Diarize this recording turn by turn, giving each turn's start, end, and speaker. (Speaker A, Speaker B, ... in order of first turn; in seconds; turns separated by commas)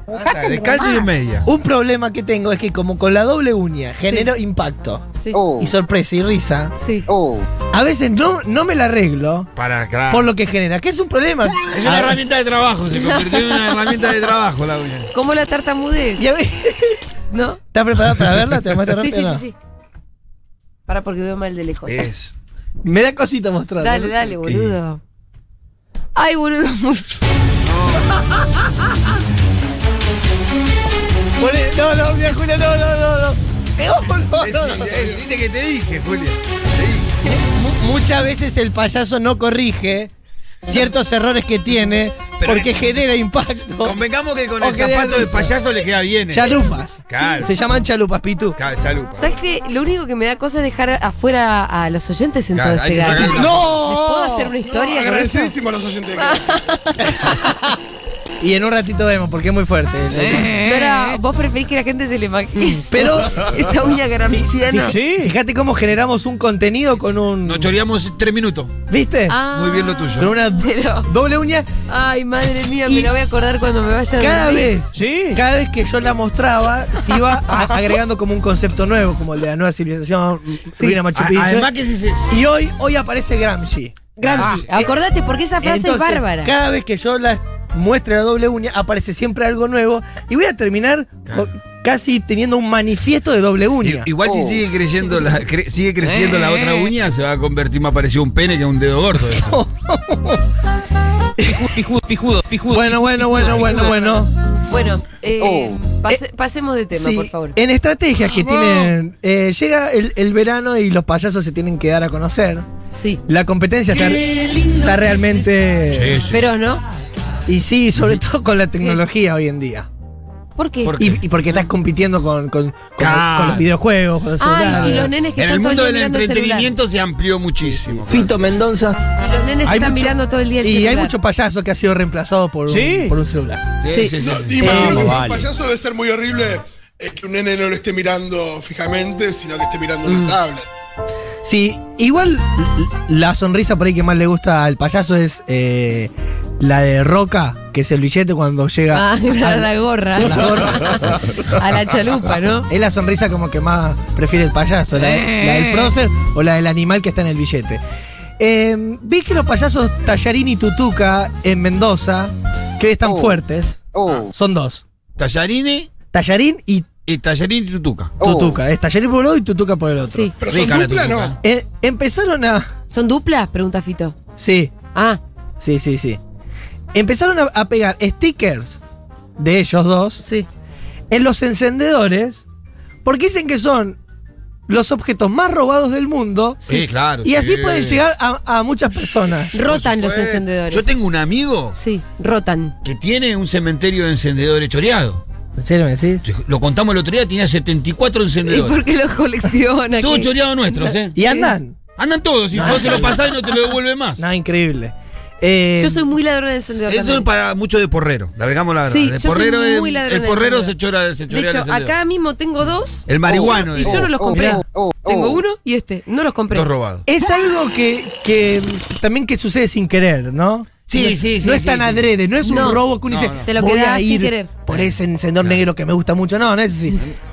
Speaker A: 0.1-1.5, Speaker B: 0.4-5.0, Speaker C: 4.0-4.3, Speaker C: 5.1-5.4, Speaker B: 5.6-6.8, Speaker C: 6.8-7.1, Speaker B: 7.7-9.5, Speaker A: 9.6-10.3, Speaker B: 10.1-12.2, Speaker A: 11.6-15.1, Speaker C: 12.9-14.0, Speaker C: 15.1-16.2, Speaker B: 16.2-17.0, Speaker C: 17.3-17.6, Speaker B: 17.7-19.4, Speaker C: 18.9-19.6, Speaker C: 20.9-22.1, Speaker A: 21.9-22.3, Speaker B: 22.8-24.3, Speaker C: 23.8-25.0, Speaker A: 24.4-24.8, Speaker C: 26.1-27.2, Speaker A: 27.6-28.2, Speaker B: 31.4-35.1, Speaker A: 34.4-37.1, Speaker B: 37.3-40.1, Speaker B: 40.7-44.0, Speaker A: 42.4-42.8, Speaker A: 43.8-46.5, Speaker B: 44.6-45.5, Speaker B: 46.3-48.6, Speaker A: 47.1-47.5, Speaker A: 48.6-49.4, Speaker C: 49.1-55.5, Speaker A: 52.5-53.7, Speaker B: 53.2-54.5, Speaker D: 54.7-56.6, Speaker C: 56.2-57.4, Speaker B: 57.1-57.8, Speaker B: 58.4-60.7, Speaker C: 60.5-65.0, Speaker B: 62.9-63.4, Speaker E: 64.8-65.3, Speaker B: 65.2-67.7, Speaker A: 67.4-68.7, Speaker B: 68.9-69.4, Speaker C: 69.3-71.1, Speaker A: 69.5-70.3, Speaker B: 70.2-71.7, Speaker C: 71.9-74.7, Speaker B: 72.8-73.1, Speaker B: 74.2-81.7, Speaker E: 74.9-75.4, Speaker C: 77.5-77.8, Speaker C: 80.8-81.0, Speaker A: 81.1-82.4, Speaker B: 82.3-84.9, Speaker C: 84.2-86.5, Speaker A: 84.2-84.7, Speaker B: 85.6-94.1, Speaker A: 93.8-99.6, Speaker B: 99.2-100.4, Speaker B: 101.4-101.8, Speaker E: 101.4-103.6, Speaker B: 102.7-104.3, Speaker C: 103.5-107.6, Speaker B: 106.9-112.7, Speaker D: 108.3-108.9, Speaker C: 112.9-113.2, Speaker B: 113.3-114.3, Speaker B: 114.8-116.2, Speaker A: 115.9-116.5, Speaker C: 116.3-116.8, Speaker B: 117.5-119.9, Speaker C: 120.5-121.0, Speaker A: 120.8-121.6, Speaker B: 121.0-125.1, Speaker A: 123.0-123.7, Speaker C: 124.4-126.7, Speaker A: 124.7-128.3, Speaker B: 127.6-129.0, Speaker C: 129.2-131.2, Speaker B: 129.6-133.6, Speaker E: 132.7-133.1, Speaker A: 133.8-135.0, Speaker D: 134.2-140.7, Speaker B: 134.6-135.2, Speaker E: 134.6-135.5, Speaker C: 140.1-140.4, Speaker B: 141.4-151.2, Speaker C: 148.9-152.7, Speaker B: 152.7-157.8, Speaker C: 155.0-155.9, Speaker B: 158.4-163.8, Speaker A: 164.0-164.3, Speaker B: 164.3-164.8, Speaker A: 165.2-165.9, Speaker B: 166.1-166.9, Speaker A: 167.1-168.2, Speaker B: 168.2-170.3, Speaker C: 170.1-170.3, Speaker D: 170.4-171.4, Speaker A: 170.5-171.4, Speaker B: 171.4-172.7, Speaker C: 172.9-174.2, Speaker B: 174.4-174.7, Speaker C: 174.9-175.2, Speaker B: 175.6-176.2, Speaker B: 176.9-178.8, Speaker B: 179.4-180.2, Speaker C: 180.2-180.5, Speaker B: 181.1-182.4, Speaker B: 183.0-184.0, Speaker B: 184.7-189.6, Speaker A: 186.6-188.0, Speaker A: 189.5-191.8, Speaker C: 189.5-190.9, Speaker C: 191.7-192.7, Speaker A: 192.8-195.2, Speaker B: 195.6-196.3, Speaker A: 196.2-198.8, Speaker C: 198.4-201.6, Speaker A: 200.0-201.2, Speaker B: 201.1-201.8, Speaker A: 202.0-204.2, Speaker B: 202.5-203.2, Speaker C: 202.6-203.4, Speaker B: 204.2-206.1, Speaker C: 205.8-207.3, Speaker A: 206.9-211.9, Speaker C: 208.9-210.7, Speaker C: 211.3-216.7, Speaker A: 213.1-214.5, Speaker B: 214.3-214.6, Speaker A: 216.5-217.1, Speaker B: 217.1-227.0, Speaker A: 220.9-223.5, Speaker C: 222.5-222.8, Speaker C: 223.4-224.5, Speaker A: 224.7-225.6